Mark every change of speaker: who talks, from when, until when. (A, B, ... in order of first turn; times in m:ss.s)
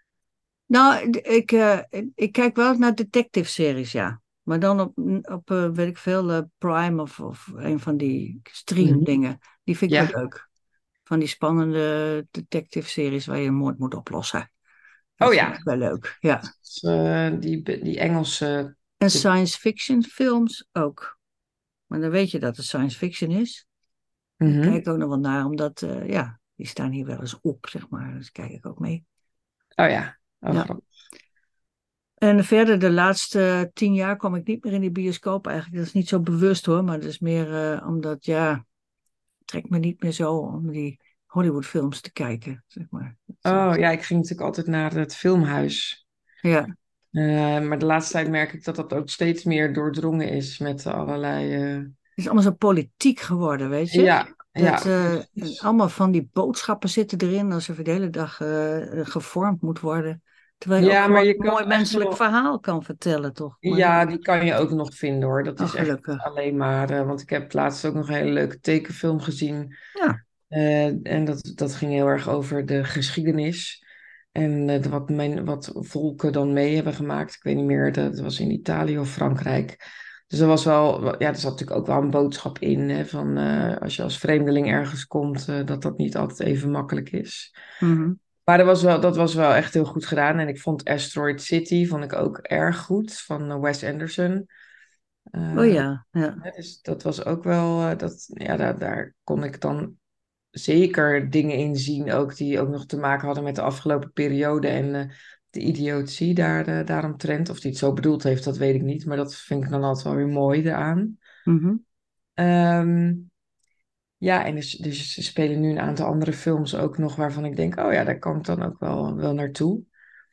0:00.7-0:10.5 A
0:08.8-0:09.1 B
0:09.9-0:10.1 B
0:11.1-0:14.5 A
0:15.2-0:16.5 A
0:15.2-0:15.6 B
0:16.5-0:19.2 B
0:19.0-0:21.2 A
0:21.9-0:23.6 A
0:24.4-0:24.8 B
0:24.4-0:29.0 A
0:29.8-0:30.8 B
0:32.2-0:38.6 A
0:39.5-0:43.7 A
0:43.4-0:46.0 B
0:46.4-0:46.7 A
0:47.1-0:51.9 B
0:52.2-1:04.0 A
0:53.9-0:55.6 B
1:00.8-1:02.2 B
1:03.6-1:09.7 B
1:05.6-1:06.2 A
1:09.9-1:10.2 A
1:10.5-1:13.8 B
1:14.3-1:27.5 B
1:27.8-1:28.2 A
1:28.4-1:34.5 B
1:35.3-1:35.8 B
1:35.5-1:36.4 A
1:36.4-1:40.0 B
1:40.5-1:51.2 B
1:51.5-1:51.8 A
1:52.4-1:53.3 B
1:54.2-1:59.9 B